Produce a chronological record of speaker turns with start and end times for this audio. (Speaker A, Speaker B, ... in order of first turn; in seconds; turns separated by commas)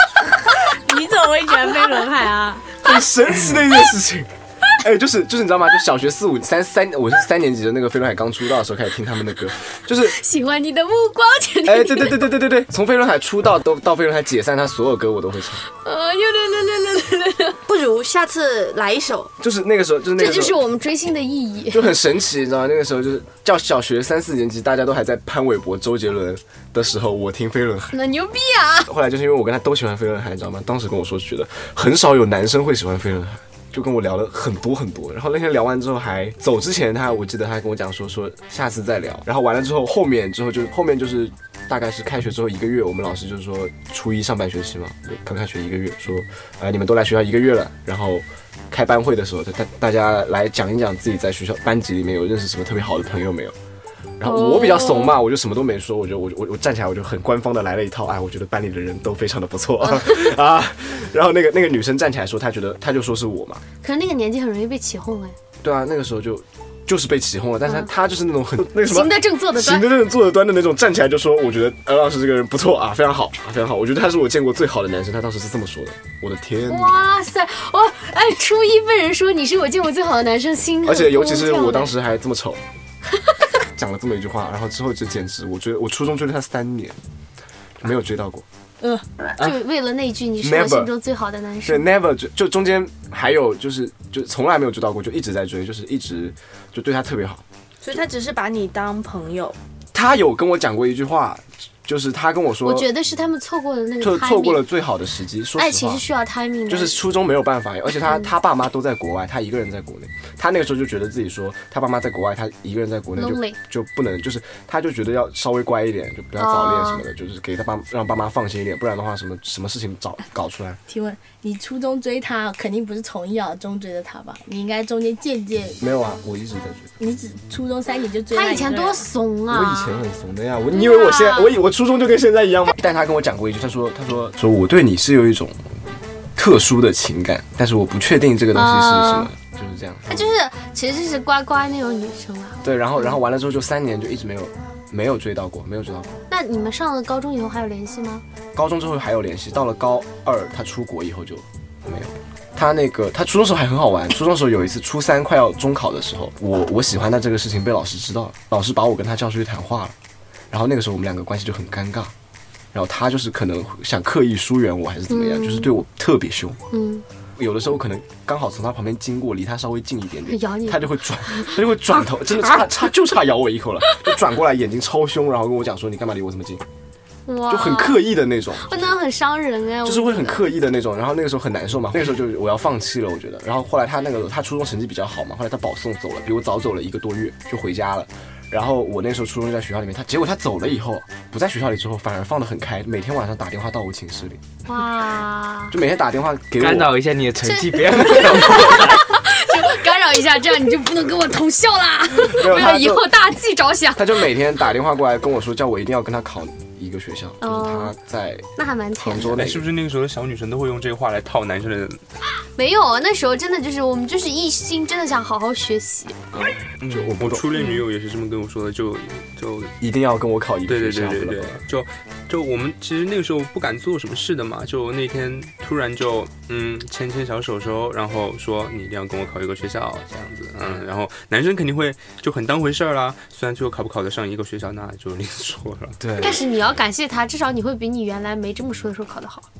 Speaker A: 0.7-2.7, Speaker B: 2.8-10.2, Speaker C: 10.0-12.2, Speaker B: 11.7-15.6, Speaker C: 15.7-17.6, Speaker D: 17.7-19.3, Speaker B: 19.4-20.6, Speaker C: 20.2-21.9, Speaker B: 21.7-27.9, Speaker C: 27.9-28.9, Speaker B: 28.9-53.5, Speaker B: 54.2-63.6, Speaker C: 54.2-55.1, Speaker C: 63.8-65.4, Speaker B: 65.6-77.0, Speaker C: 68.8-69.9, Speaker C: 76.7-81.9, Speaker B: 80.8-82.6, Speaker B: 83.7-87.0, Speaker B: 87.8-88.5, Speaker C: 89.4-91.9, Speaker B: 90.4-90.9, Speaker B: 91.7-97.4, Speaker D: 97.8-99.6, Speaker B: 99.9-102.9, Speaker C: 102.6-104.6, Speaker B: 104.0-106.0, Speaker C: 105.6-107.0, Speaker B: 106.7-120.8, Speaker C: 113.2-113.6, Speaker C: 116.4-117.0, Speaker A: 120.9-125.8, Speaker B: 125.8-126.9, Speaker A: 127.0-129.1, Speaker C: 128.3-130.0, Speaker B: 129.5-135.7, Speaker C: 130.7-131.6, Speaker B: 136.4-140.3, Speaker C: 138.5-139.3, Speaker C: 140.1-143.0, Speaker B: 142.6-146.1, Speaker C: 146.3-148.2, Speaker B: 148.6-159.9, Speaker B: 160.5-162.1, Speaker B: 162.7-166.6, Speaker C: 165.1-165.7, Speaker C: 166.7-167.0, Speaker B: 167.4-176.6, Speaker C: 170.3-172.7, Speaker C: 173.9-174.1, Speaker C: 177.3-178.1, Speaker B: 177.5-178.7, Speaker C: 178.6-180.5, Speaker B: 179.8-194.4, Speaker C: 194.7-195.8, Speaker B: 195.7-196.9, Speaker E: 196.6-199.1, Speaker C: 197.4-204.2, Speaker B: 202.2-203.1, Speaker B: 204.0-209.7, Speaker C: 207.4-207.9, Speaker C: 208.6-209.4, Speaker F: 209.3-212.0, Speaker C: 212.6-216.5, Speaker B: 216.9-217.5, Speaker F: 217.2-219.8, Speaker B: 219.8-221.6, Speaker F: 220.7-236.0, Speaker B: 236.0-236.4, Speaker C: 236.2-239.5